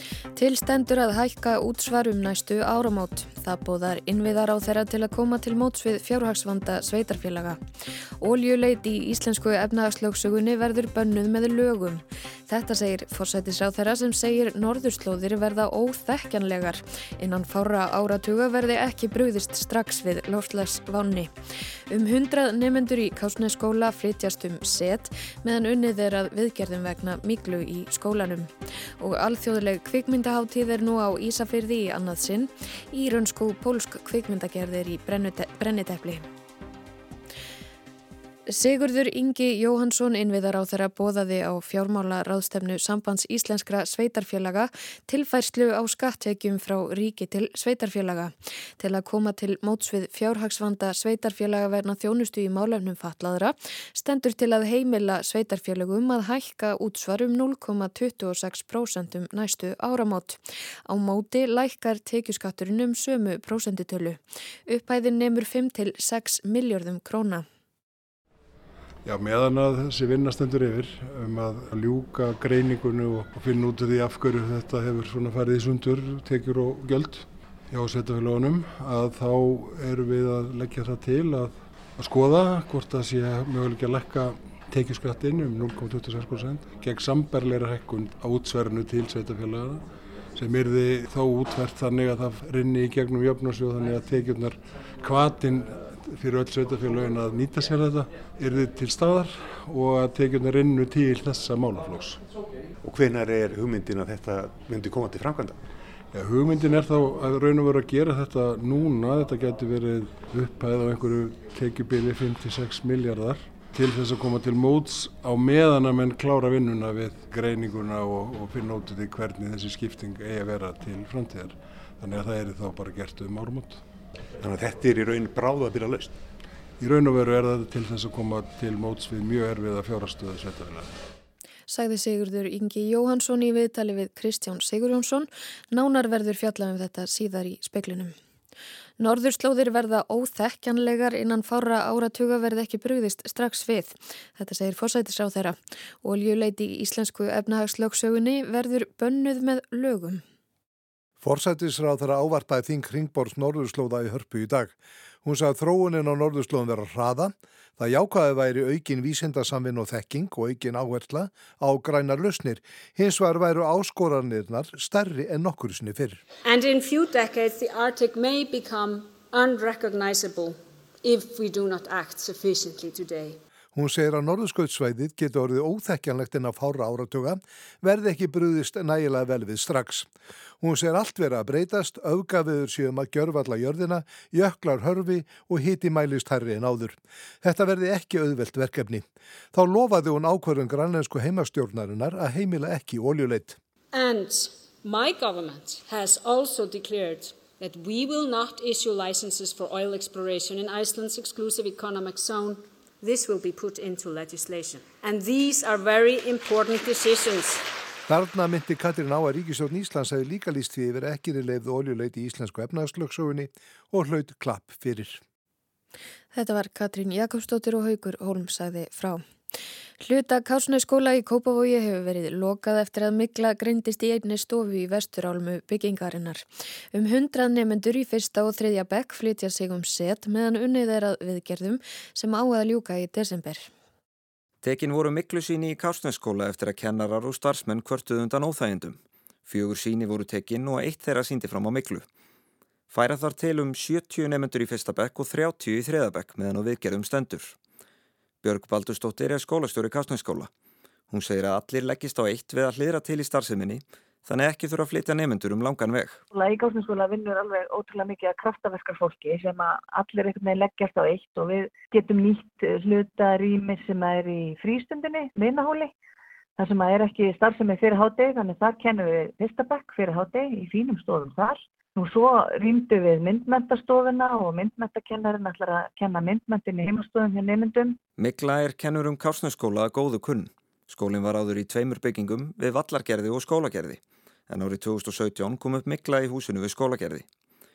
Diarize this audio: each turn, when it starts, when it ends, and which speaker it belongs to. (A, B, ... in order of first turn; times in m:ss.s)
0:00.4-0:07.6 A
0:08.2-0:21.3 A
0:21.9-0:36.3 A
0:38.5-1:07.5 A
1:09.0-1:42.2 B
1:42.8-1:45.6 C
1:46.1-2:03.8 B
2:04.4-2:06.2 C
2:06.8-2:10.9 B
2:11.7-2:18.1 A
2:19.0-2:30.2 A
2:31.2-2:46.2 D
2:46.4-2:53.4 E
2:53.7-3:00.1 D
3:00.6-3:13.6 D
3:13.9-3:27.6 E
3:28.1-3:35.2 D
3:36.3-3:39.2 A
3:40.0-3:53.7 A
3:54.6-4:02.0 F
4:02.9-4:07.6 F
4:08.4-4:10.5 F
4:11.1-4:16.2 F
4:16.3-4:25.9 G
4:26.6-4:38.0 G
4:38.2-4:47.2 F